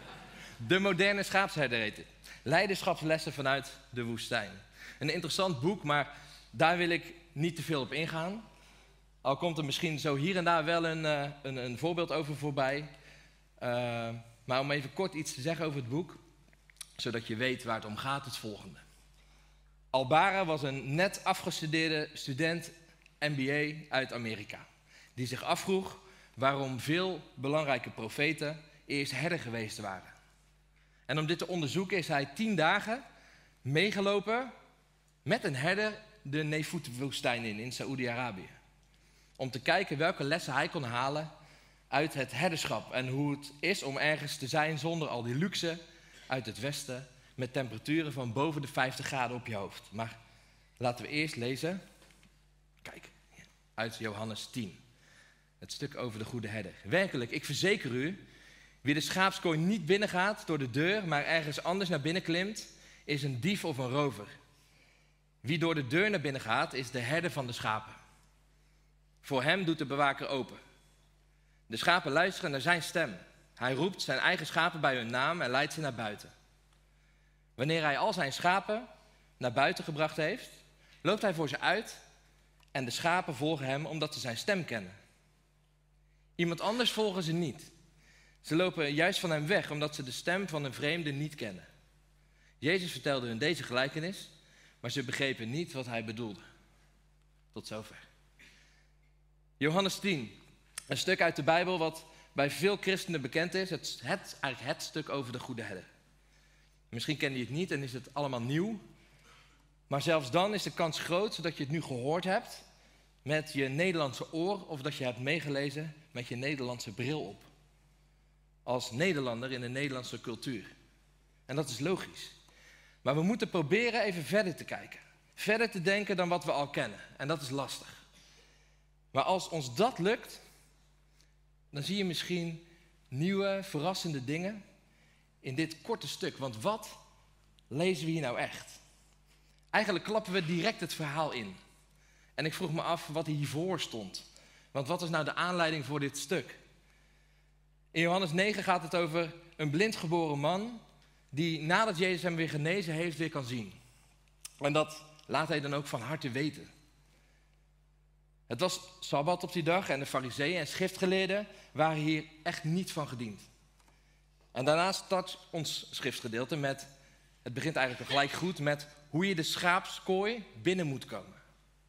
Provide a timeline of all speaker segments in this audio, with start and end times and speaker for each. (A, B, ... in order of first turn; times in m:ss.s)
0:00.6-0:08.4 A
0:09.2-0:12.9 A
0:13.6-0:16.2 A
0:17.0-0:18.8 A
0:19.9-0:30.1 A
0:31.1-0:33.0 A
0:33.6-0:34.5 A
0:35.2-0:38.5 A
0:39.4-0:41.3 A
0:41.9-0:50.2 A
0:50.8-0:51.8 A
0:52.8-0:54.8 A
0:55.6-0:58.2 A
0:58.8-1:04.3 A
1:05.4-1:08.0 A
1:09.2-1:10.6 A
1:11.7-1:16.3 A
1:17.6-1:18.9 A
1:19.4-1:22.0 A
1:22.7-1:25.0 A
1:26.4-1:27.7 A
1:28.4-1:31.7 A
1:32.6-1:36.4 A
1:37.5-1:38.1 A
1:39.6-1:40.4 A
1:40.9-1:45.9 A
1:46.9-1:48.8 A
1:49.9-1:52.6 A
1:53.2-1:57.5 A
1:58.7-2:00.7 A
2:01.5-2:02.4 A
2:03.0-2:08.0 A
2:09.1-2:10.4 A
2:11.7-2:14.6 A
2:15.4-2:17.0 A
2:17.7-2:18.8 A
2:19.7-2:21.6 A
2:22.4-2:26.6 A
2:27.9-2:33.8 A
2:34.6-2:36.7 A
2:38.5-2:43.4 A
2:44.5-2:46.9 A
2:47.4-2:51.4 A